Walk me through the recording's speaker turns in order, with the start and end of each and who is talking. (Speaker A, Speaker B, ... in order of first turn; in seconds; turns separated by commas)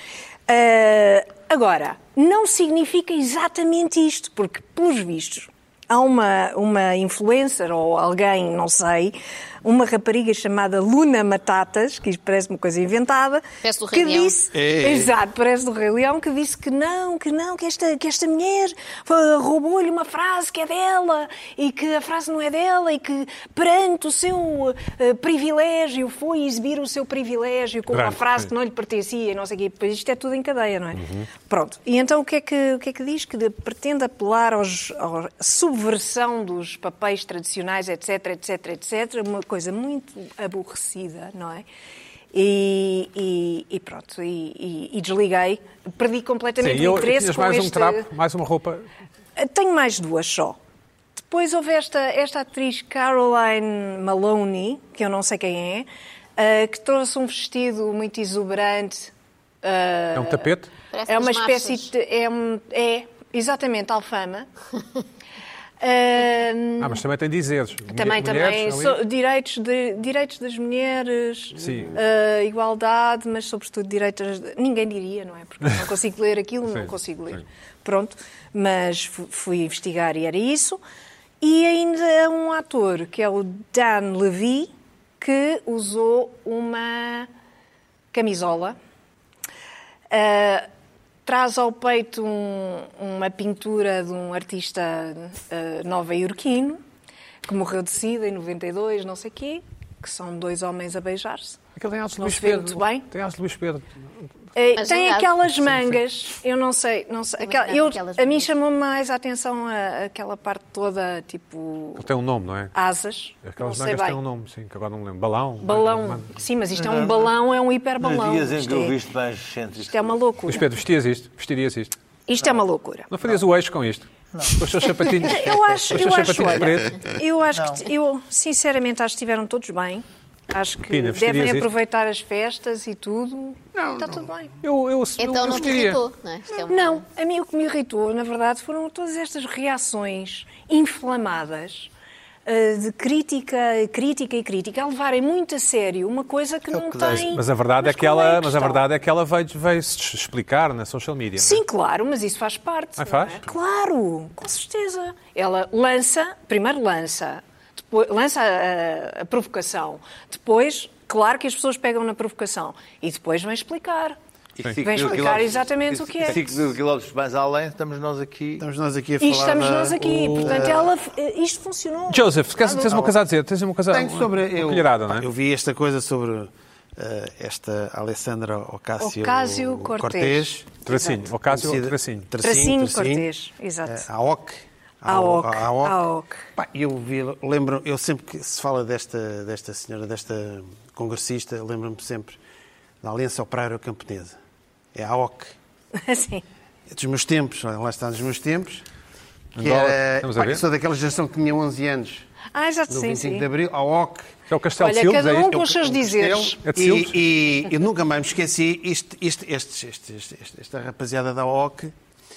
Speaker A: 0.5-41.7, Speaker B: 13.6-14.3, Speaker C: 14.5-15.1, Speaker D: 27.9-28.5, Speaker D: 31.0-31.3, Speaker A: 42.3-48.1, Speaker D: 46.6-48.9, Speaker A: 49.4-50.6, Speaker A: 51.2-59.1, Speaker A: 59.6-60.5, Speaker D: 60.1-60.7, Speaker B: 60.9-61.9, Speaker A: 61.1-64.5, Speaker A: 65.8-67.0, Speaker D: 66.8-69.0, Speaker A: 67.9-80.8, Speaker D: 71.6-71.9, Speaker A: 81.4-87.3, Speaker A: 88.1-88.8, Speaker A: 90.1-90.7, Speaker A: 91.2-96.8, Speaker A: 97.5-101.6, Speaker D: 101.8-103.9, Speaker A: 102.2-103.1, Speaker A: 104.6-112.1, Speaker B: 104.8-105.3, Speaker B: 107.4-108.5, Speaker D: 112.0-112.7, Speaker A: 112.7-114.2, Speaker D: 113.4-116.3, Speaker A: 115.6-118.9, Speaker E: 116.7-117.3, Speaker E: 118.0-120.2, Speaker A: 119.8-120.7, Speaker D: 120.5-121.9, Speaker A: 122.3-123.1, Speaker D: 123.1-127.0, Speaker E: 124.3-124.9, Speaker A: 125.0-134.6, Speaker E: 127.5-127.8, Speaker D: 130.9-131.7, Speaker D: 133.8-134.1, Speaker D: 134.6-136.0, Speaker B: 135.2-137.0, Speaker A: 136.6-141.9, Speaker A: 142.5-148.9, Speaker E: 146.7-147.3, Speaker D: 147.1-151.6, Speaker A: 151.4-164.2, Speaker D: 153.0-153.4, Speaker E: 164.6-168.7, Speaker A: 164.8-166.5, Speaker C: 168.6-170.9, Speaker A: 169.2-172.9, Speaker D: 170.1-170.4, Speaker D: 172.1-175.2, Speaker C: 172.9-173.2, Speaker C: 173.9-183.3, Speaker A: 179.0-180.5, Speaker D: 180.8-182.3, Speaker A: 182.4-184.1, Speaker C: 183.8-186.0, Speaker A: 185.1-186.4, Speaker C: 186.6-192.4, Speaker C: 193.0-194.3, Speaker C: 194.9-195.6, Speaker A: 196.0-196.4, Speaker C: 196.9-198.8, Speaker D: 199.6-200.6, Speaker C: 199.6-202.3, Speaker A: 202.5-203.5, Speaker C: 202.9-204.2, Speaker D: 204.5-205.8, Speaker A: 204.8-206.6, Speaker C: 205.9-211.9, Speaker D: 206.6-207.2